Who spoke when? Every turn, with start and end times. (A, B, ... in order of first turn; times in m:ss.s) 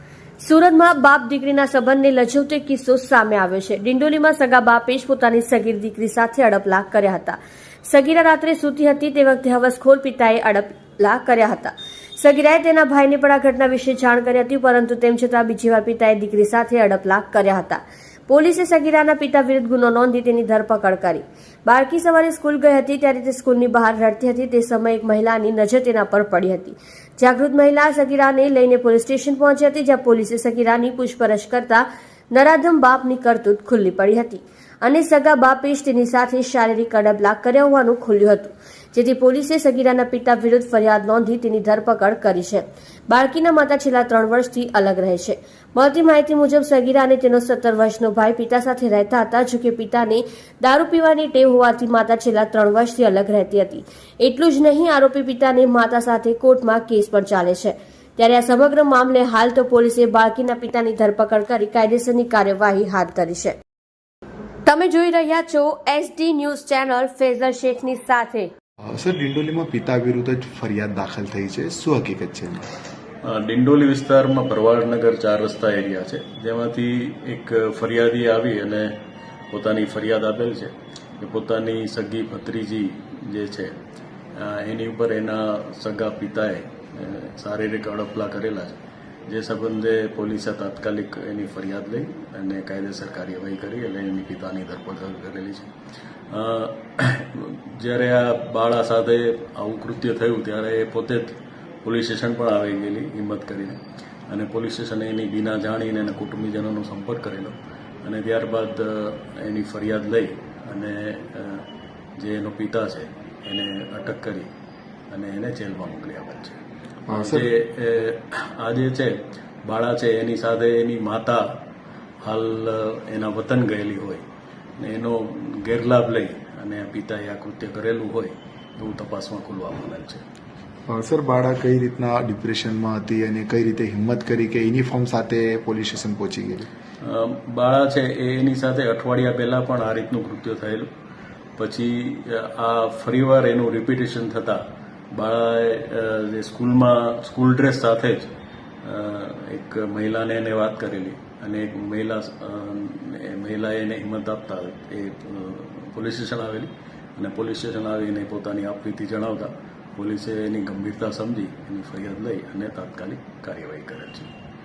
0:00.4-1:03.6 A
1:04.6-1:08.5 A
1:08.9-1:12.7 B
1:13.2-1:18.9 C
1:19.5-1:23.7 C
1:24.3-1:35.7 C
1:36.3-1:43.8 C
1:44.3-1:51.6 C
1:52.2-1:54.5 C
1:55.1-1:56.6 C
1:57.1-1:57.5 B
1:57.1-2:01.4 C
2:02.2-2:04.2 C
2:04.8-2:10.2 C
2:10.9-2:16.7 B
2:17.0-2:20.9 C
2:21.6-2:24.6 C
2:25.1-2:28.3 C
2:28.8-2:44.3 C